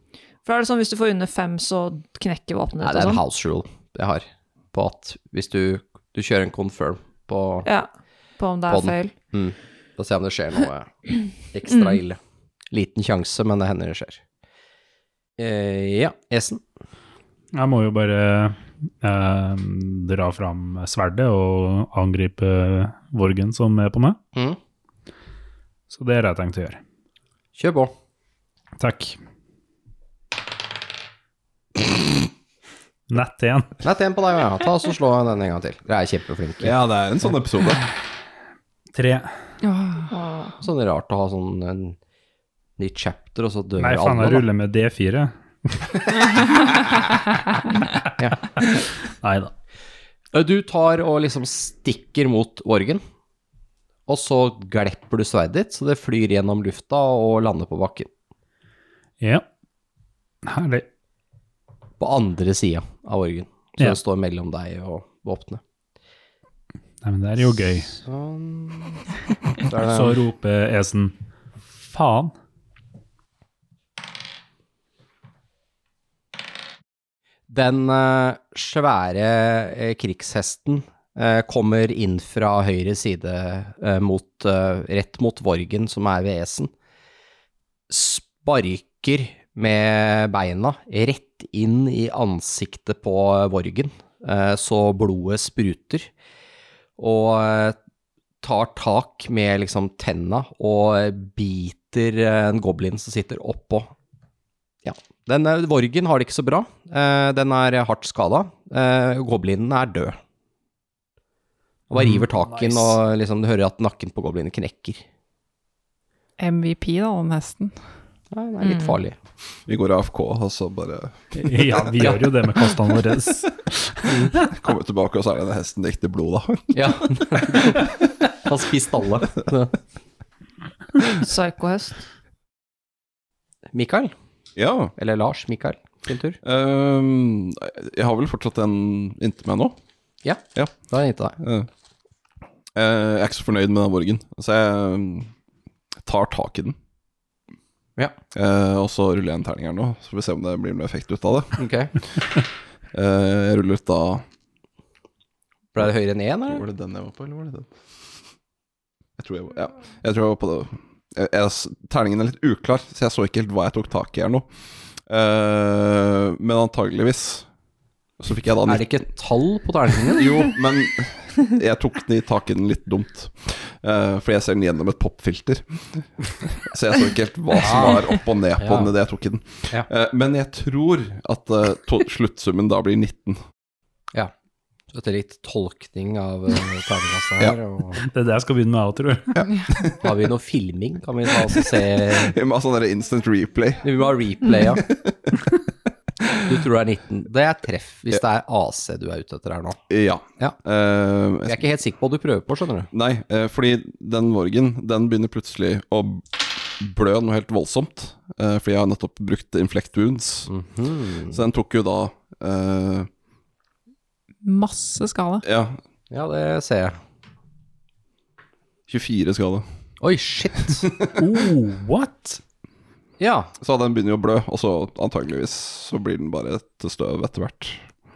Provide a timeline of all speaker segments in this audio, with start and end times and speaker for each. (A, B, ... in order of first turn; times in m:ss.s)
0:00.4-0:03.2 A
0:02.8-0:07.7 B
0:07.6-0:09.1 A
0:08.7-0:12.2 B
0:11.7-0:12.0 A
0:12.7-0:14.2 B
0:15.4-0:16.6 B
0:17.5-0:24.2 C
0:25.9-0:26.8 C
0:27.6-0:27.9 B
0:28.8-0:29.2 C
0:33.1-0:33.8 C
0:33.8-0:36.7 B
0:36.6-0:37.8 D
0:38.9-0:39.3 C
0:39.6-0:40.1 E
0:40.1-0:40.5 A
0:40.6-0:42.0 B
0:42.8-0:44.4 B
0:43.8-0:48.1 C
0:48.2-0:48.4 B
0:48.6-0:49.5 C
0:50.3-0:53.0 B
0:54.1-0:58.1 B
0:59.2-0:59.4 C
1:00.4-1:00.8 C
1:02.0-1:05.6 B
1:07.0-1:07.9 C
1:07.8-1:09.0 B
1:09.6-1:10.2 B
1:09.7-1:11.1 C
1:11.8-1:12.3 C
1:17.5-1:26.7 B
1:27.9-1:36.1 B
1:37.0-1:37.8 B
1:38.4-1:43.9 B
1:44.8-1:50.2 B
1:51.9-1:55.0 B
1:52.0-1:53.0 C
1:56.4-1:57.7 E
1:58.3-1:59.2 B
1:58.6-1:58.9 A
1:59.7-2:01.7 D
2:01.3-2:04.5 C
2:04.0-2:04.3 B
2:04.3-2:07.8 D
2:06.7-2:09.8 B
2:11.1-2:12.0 A
2:13.7-2:14.1 B
2:14.6-2:14.9 D
2:15.0-2:16.4 B
2:16.4-2:19.8 D
2:20.2-2:21.4 B
2:21.4-2:21.7 D
2:22.7-2:25.3 D
2:26.0-2:26.8 D
2:28.3-2:31.6 D
2:31.6-2:31.9 B
2:32.9-2:34.2 D
2:35.7-2:36.6 B
2:36.5-2:37.7 D
2:39.2-2:44.4 D
2:45.1-2:47.5 D
2:48.2-2:49.0 D
2:48.7-2:50.4 B
2:50.1-3:03.4 D
2:57.6-2:58.9 B
3:04.9-3:08.0 B
3:08.0-3:09.9 C
3:09.4-3:09.8 D
3:10.0-3:12.3 B
3:12.1-3:15.5 D
3:13.8-3:14.8 B
3:16.4-3:19.8 B
3:19.9-3:21.6 D
3:21.4-3:22.9 B
3:22.9-3:30.5 D
3:30.5-3:31.4 B
3:31.3-3:33.1 D
3:34.4-3:35.4 E
3:35.4-3:35.8 D
3:36.1-3:37.0 B
3:38.9-3:39.6 D
3:40.0-3:40.9 B
3:40.8-3:41.1 D
3:41.1-3:42.4 C
3:43.2-3:43.5 B
3:43.6-3:47.9 D